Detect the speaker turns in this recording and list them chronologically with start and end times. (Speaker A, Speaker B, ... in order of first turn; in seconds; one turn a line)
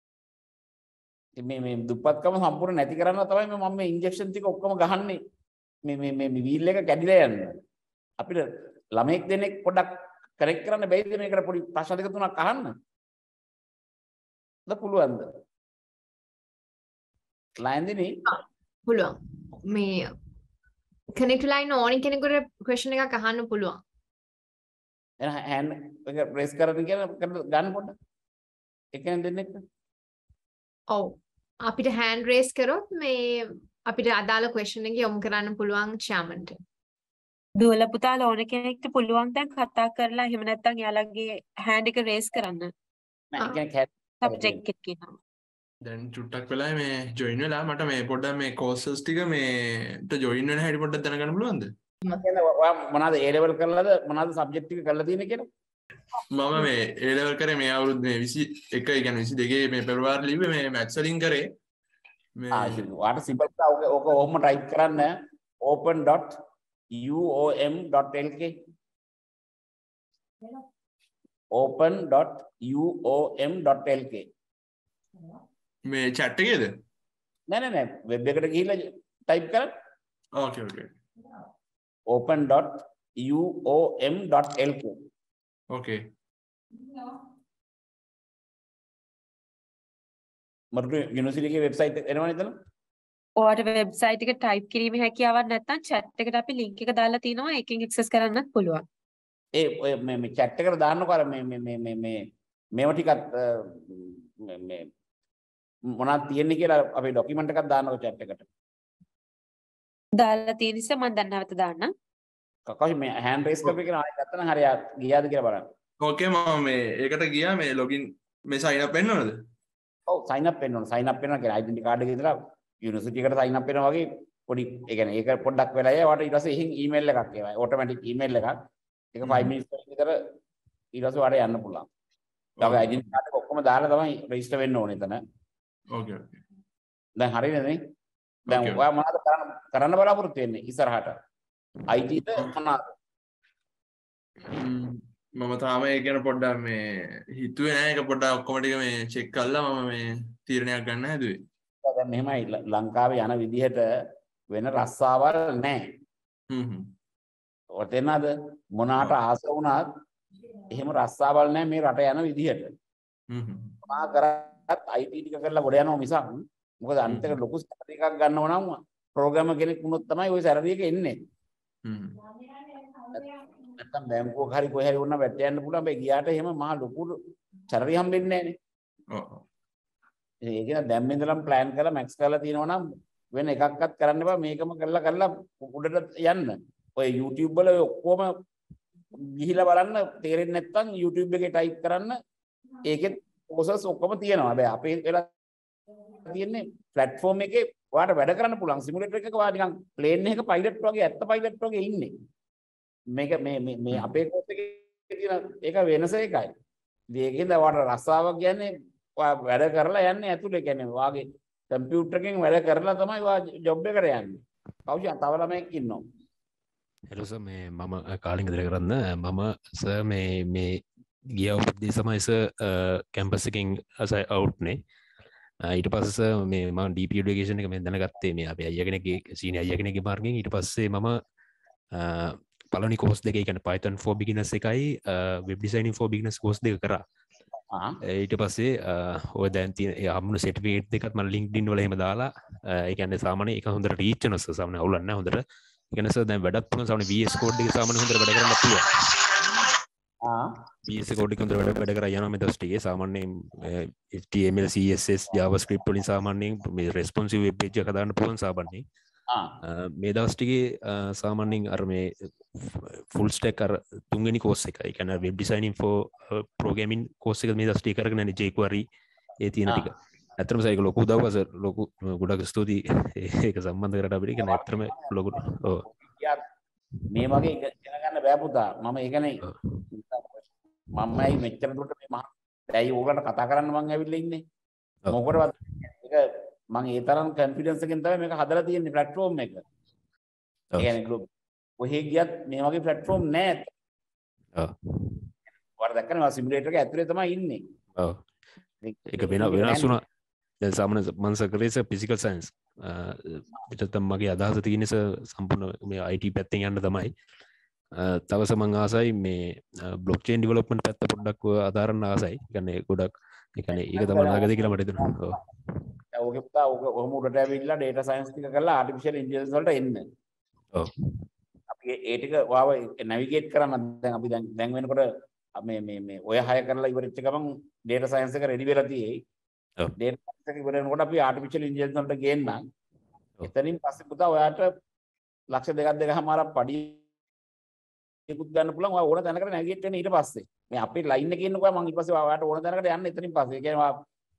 Speaker A: 1.4-5.2
Speaker A: 5.8-7.6
Speaker A: 8.2-12.7
Speaker A: 14.7-15.3
Speaker A: 17.6-18.2
Speaker B: 18.2-20.1
Speaker B: 21.1-23.8
Speaker A: 25.2-27.9
Speaker A: 28.9-29.5
Speaker B: 30.9-36.6
Speaker C: 37.6-42.7
Speaker A: 43.3-44.6
Speaker C: 44.2-45.1
Speaker D: 45.8-51.7
Speaker A: 52.1-55.5
Speaker D: 56.3-61.5
Speaker D: 62.4-62.8
Speaker A: 62.5-66.4
Speaker A: 66.9-68.5
Speaker A: 71.5-74.3
Speaker D: 75.8-76.7
Speaker A: 77.5-79.7
Speaker D: 80.4-80.9
Speaker A: 82.1-85.0
Speaker D: 85.7-86.0
Speaker A: 90.7-92.5
Speaker C: 93.4-98.8
Speaker A: 99.5-104.9
Speaker A: 105.9-108.5
Speaker C: 110.2-111.9
Speaker A: 112.7-115.7
Speaker D: 116.0-119.4
Speaker A: 120.1-128.5
Speaker A: 129.1-130.2
Speaker D: 129.2-129.5
Speaker A: 130.9-131.9
Speaker D: 132.6-133.0
Speaker A: 132.6-135.2
Speaker D: 135.9-136.4
Speaker A: 137.2-137.8
Speaker A: 138.5-141.2
Speaker D: 138.5-138.8
Speaker A: 141.9-142.9
Speaker D: 144.4-151.4
Speaker A: 151.8-153.8
Speaker A: 154.5-155.8
Speaker D: 156.5-156.9
Speaker A: 157.7-159.9
Speaker A: 160.7-162.7
Speaker D: 163.3-163.8
Speaker A: 163.8-171.2
Speaker D: 167.1-167.3
Speaker D: 171.8-172.2
Speaker A: 173.1-177.2
Speaker A: 177.7-178.6
Speaker D: 179.1-179.4
Speaker A: 180.4-182.8
Speaker A: 183.3-188.3
Speaker A: 189.2-192.2
Speaker A: 192.8-195.3
Speaker A: 196.2-202.1
Speaker A: 203.1-206.5
Speaker A: 207.1-216.0
Speaker E: 217.1-220.8
Speaker E: 221.3-224.8
Speaker E: 225.6-231.2
Speaker E: 231.9-237.0
Speaker A: 237.7-238.0
Speaker E: 238.1-245.4
Speaker E: 245.9-248.9
Speaker A: 250.2-250.5
Speaker E: 250.9-258.9
Speaker E: 259.7-268.8
Speaker E: 269.4-275.8
Speaker A: 274.4-276.5
Speaker A: 277.1-279.4
Speaker E: 279.4-279.9
Speaker A: 279.9-280.4
Speaker A: 280.9-284.4
Speaker A: 285.1-289.6
Speaker A: 290.8-291.3
Speaker A: 291.8-293.7
Speaker E: 294.6-295.3
Speaker A: 295.8-297.6
Speaker A: 298.8-300.0
Speaker E: 299.1-300.0
Speaker E: 300.6-307.1
Speaker E: 308.0-315.4
Speaker A: 313.7-315.4
Speaker A: 316.1-320.0
Speaker A: 321.7-329.1
Speaker A: 330.0-332.6
Speaker A: 333.5-334.7
Speaker A: 335.5-337.0
Speaker A: 338.3-344.0